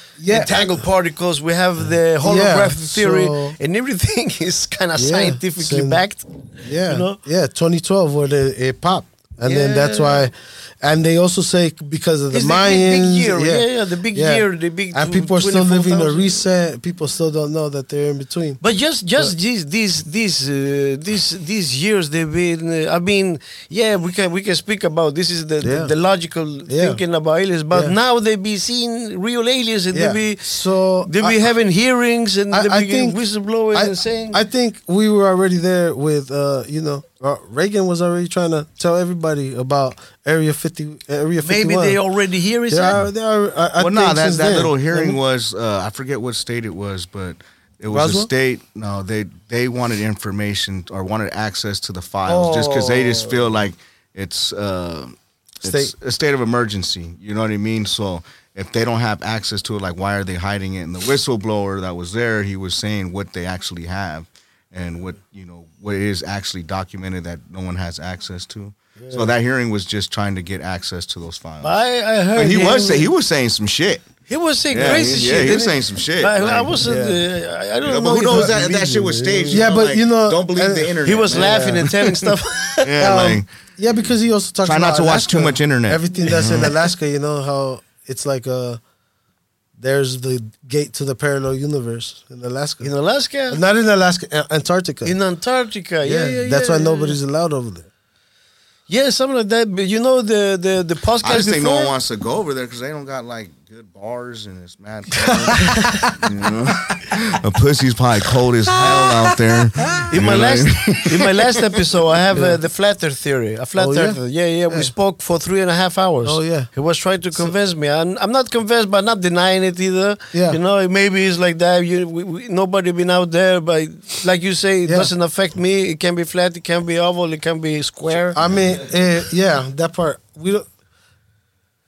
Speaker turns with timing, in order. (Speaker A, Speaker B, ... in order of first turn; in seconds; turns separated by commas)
Speaker A: 0.2-0.8, Speaker B: 0.3-7.2, Speaker A: 2.2-3.5, Speaker A: 5.0-6.0, Speaker A: 6.6-18.6, Speaker B: 9.4-10.3, Speaker B: 12.3-16.4, Speaker B: 18.6-30.5, Speaker A: 25.6-25.9, Speaker A: 26.7-27.0, Speaker A: 29.9-31.4, Speaker B: 31.1-34.4, Speaker A: 32.5-33.2, Speaker A: 33.7-42.0, Speaker B: 41.4-43.0, Speaker A: 42.7-45.2, Speaker C: 43.8-71.8, Speaker A: 47.9-48.3, Speaker A: 52.2-53.5, Speaker A: 55.6-55.9, Speaker B: 69.0-69.3, Speaker B: 71.6-73.1, Speaker C: 72.3-74.0, Speaker B: 74.3-79.7, Speaker C: 74.7-76.9, Speaker A: 76.8-77.2, Speaker C: 77.8-81.9, Speaker A: 79.5-81.9, Speaker B: 81.0-82.9, Speaker C: 82.8-83.5, Speaker A: 83.0-88.8, Speaker C: 84.6-86.7, Speaker A: 89.8-92.9, Speaker B: 92.8-93.6, Speaker A: 93.5-95.2, Speaker B: 95.0-97.2, Speaker A: 96.0-97.9, Speaker B: 98.9-101.9, Speaker C: 101.2-111.6, Speaker A: 105.2-106.4, Speaker A: 108.8-110.1, Speaker B: 110.1-128.4, Speaker A: 112.3-112.6, Speaker A: 113.8-114.9, Speaker A: 116.2-116.7, Speaker A: 120.3-120.6, Speaker A: 128.3-130.7